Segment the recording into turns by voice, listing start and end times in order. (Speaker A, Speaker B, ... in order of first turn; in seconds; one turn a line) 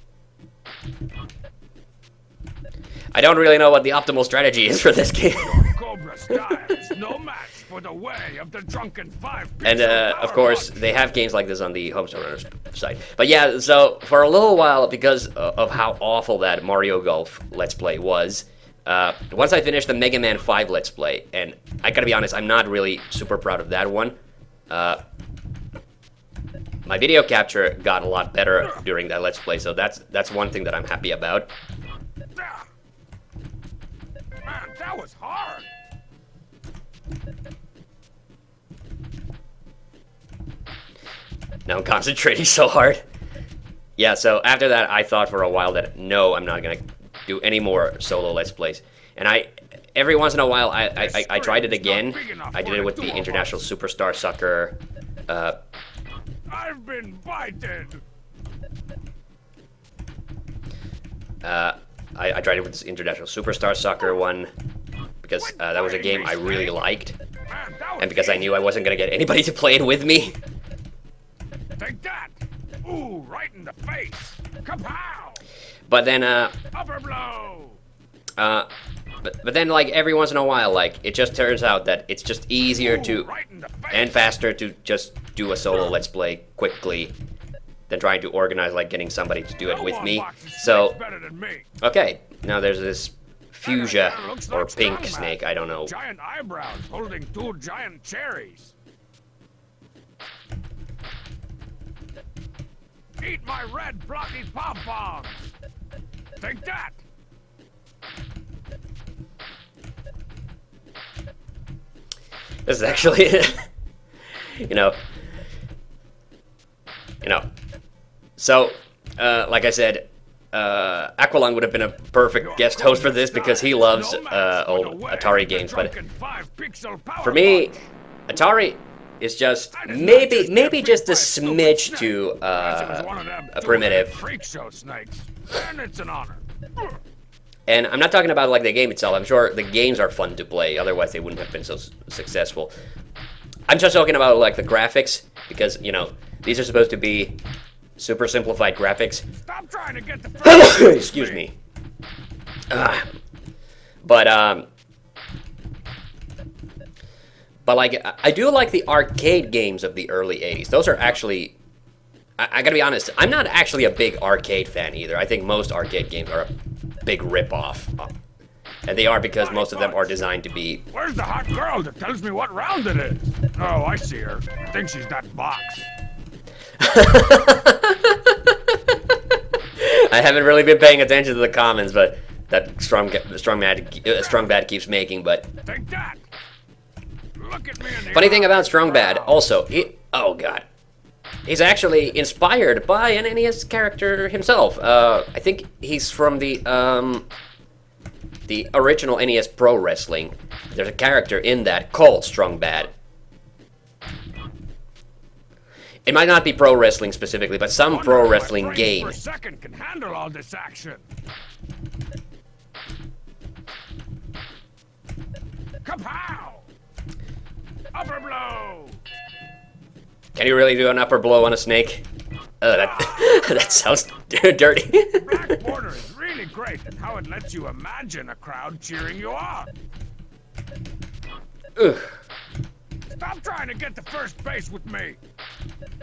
Speaker A: 3.1-5.7
Speaker B: 5.3-10.8
Speaker A: 9.6-24.2
Speaker A: 24.7-25.0
Speaker A: 26.9-31.5
Speaker B: 32.4-32.6
Speaker B: 34.5-35.7
Speaker A: 41.7-43.0
Speaker A: 44.0-55.6
Speaker B: 51.0-53.6
Speaker B: 56.5-58.0
Speaker A: 61.4-64.5
Speaker A: 65.2-67.2
Speaker B: 65.3-66.8
Speaker B: 67.5-68.5
Speaker A: 68.0-70.4
Speaker B: 71.8-75.4
Speaker A: 75.9-76.5
Speaker B: 76.7-77.8
Speaker A: 78.4-78.7
Speaker A: 79.2-83.3
Speaker B: 82.7-84.3
Speaker A: 83.9-87.2
Speaker A: 87.9-91.0
Speaker B: 89.6-91.7
Speaker A: 91.8-95.9
Speaker B: 93.6-98.7
Speaker B: 103.2-105.5
Speaker B: 106.4-107.0
Speaker A: 112.7-113.7
Speaker A: 114.4-115.0
Speaker A: 118.4-125.9
Speaker B: 122.4-127.9
Speaker A: 127.2-127.7
Speaker A: 128.3-134.2
Speaker B: 129.7-136.4
Speaker A: 137.7-142.7
Speaker A: 143.7-147.4
Speaker A: 148.0-149.2
Speaker B: 149.5-151.4
Speaker A: 150.4-151.5
Speaker A: 152.7-153.1
Speaker A: 154.0-154.7
Speaker A: 157.7-161.6
Speaker A: 162.4-166.5
Speaker A: 167.1-168.1
Speaker A: 168.9-170.8
Speaker B: 169.4-170.2
Speaker B: 170.9-175.9
Speaker A: 176.8-178.7
Speaker A: 179.8-185.5
Speaker B: 184.1-184.5
Speaker B: 185.7-186.2
Speaker B: 187.4-189.8
Speaker A: 188.1-190.7
Speaker A: 191.5-197.3
Speaker A: 198.5-202.9
Speaker A: 206.1-209.2
Speaker B: 207.9-211.0
Speaker B: 215.8-216.7
Speaker B: 217.9-219.0
Speaker A: 220.3-222.1
Speaker A: 222.6-225.6
Speaker B: 222.7-223.9
Speaker B: 225.2-229.7
Speaker A: 231.8-232.1
Speaker B: 233.1-235.2